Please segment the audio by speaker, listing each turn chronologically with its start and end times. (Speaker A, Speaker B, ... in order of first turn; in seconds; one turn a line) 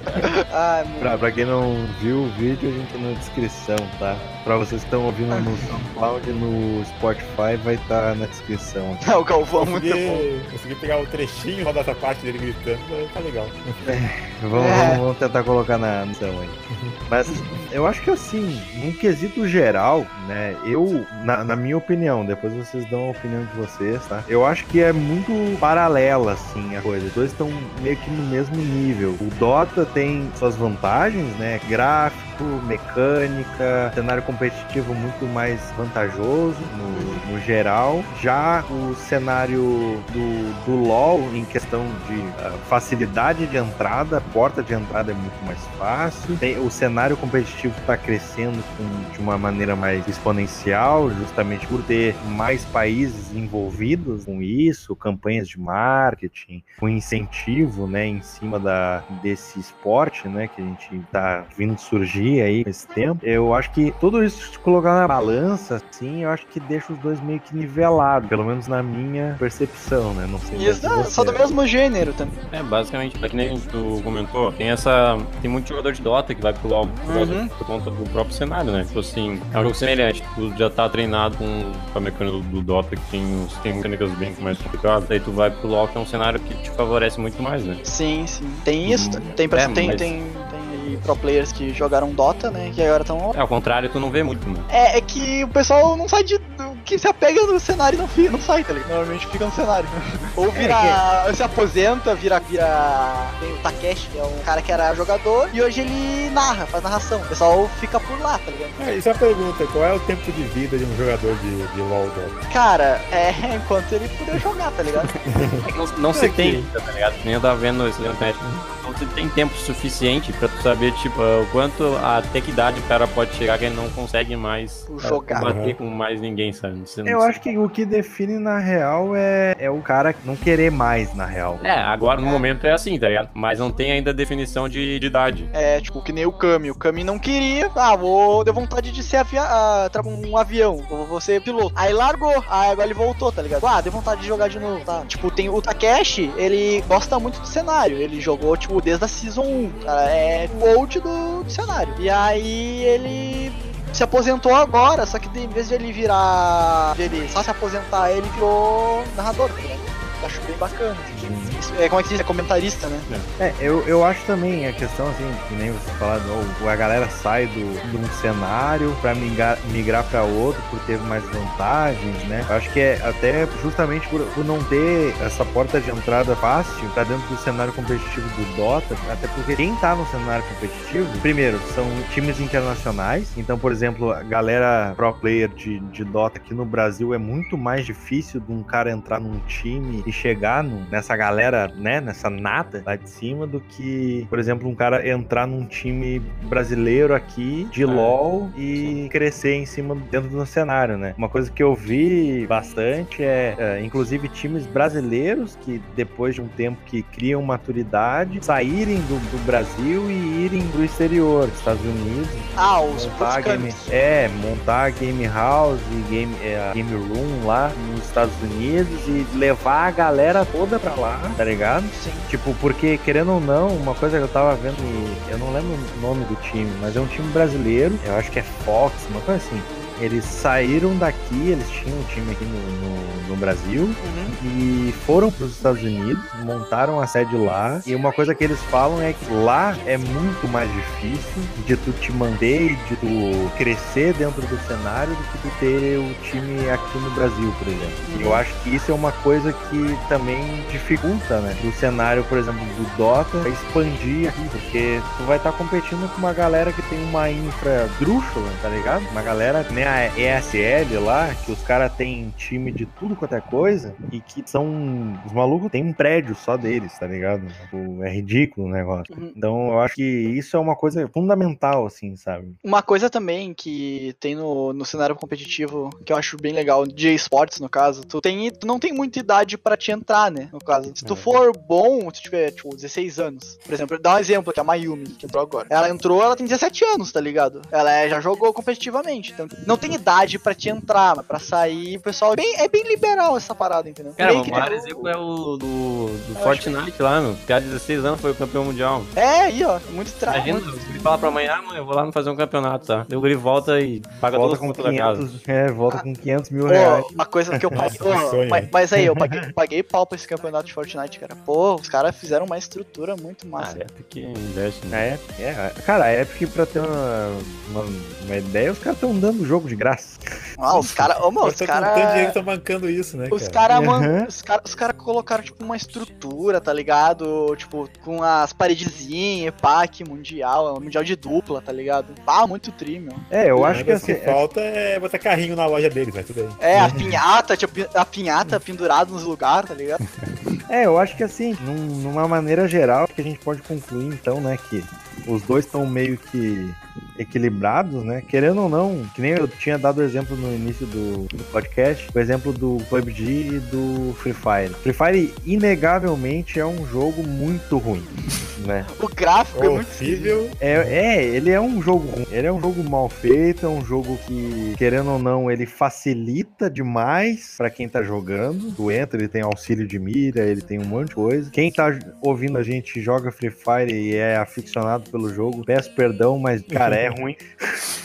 Speaker A: 0.2-1.2
Speaker B: 1.0-9.0
Speaker A: 5.3-5.7
Speaker A: 9.0-10.3
Speaker C: 9.6-13.7
Speaker B: 13.8-71.5
Speaker A: 14.6-15.0
Speaker A: 17.3-17.7
Speaker A: 36.9-37.2
Speaker A: 70.5-72.3
Speaker D: 72.5-87.8
Speaker A: 77.1-77.5
Speaker A: 87.8-93.3
Speaker D: 88.8-90.1
Speaker D: 93.3-94.7
Speaker A: 94.7-108.8
Speaker D: 100.6-100.9
Speaker C: 108.8-112.4
Speaker A: 112.5-115.1
Speaker C: 115.2-115.7
Speaker D: 115.6-127.4
Speaker B: 116.1-116.6
Speaker A: 124.9-125.5
Speaker C: 125.4-125.8
Speaker B: 127.1-131.6
Speaker D: 131.6-135.5
Speaker A: 135.5-163.1
Speaker B: 161.1-161.6
Speaker B: 163.4-272.6
Speaker D: 197.9-198.2
Speaker A: 212.6-213.9
Speaker A: 221.9-222.3
Speaker A: 234.0-234.4
Speaker A: 248.1-248.4
Speaker A: 269.1-269.3
Speaker A: 272.6-295.1
Speaker D: 281.0-281.4
Speaker D: 294.2-299.1
Speaker A: 296.4-296.7
Speaker A: 299.2-301.3
Speaker D: 300.3-305.3
Speaker B: 304.3-307.9
Speaker A: 306.7-313.8
Speaker C: 307.7-308.7
Speaker B: 309.0-309.5
Speaker D: 313.6-315.1
Speaker B: 314.9-321.1
Speaker A: 320.6-322.4
Speaker C: 321.4-323.6
Speaker A: 323.3-333.8
Speaker B: 323.7-324.3
Speaker B: 333.3-334.4
Speaker C: 333.7-337.1
Speaker A: 336.6-340.0
Speaker B: 336.7-337.2
Speaker B: 340.7-358.9
Speaker A: 359.0-360.4
Speaker C: 359.5-361.0
Speaker B: 360.6-377.9
Speaker C: 376.7-377.2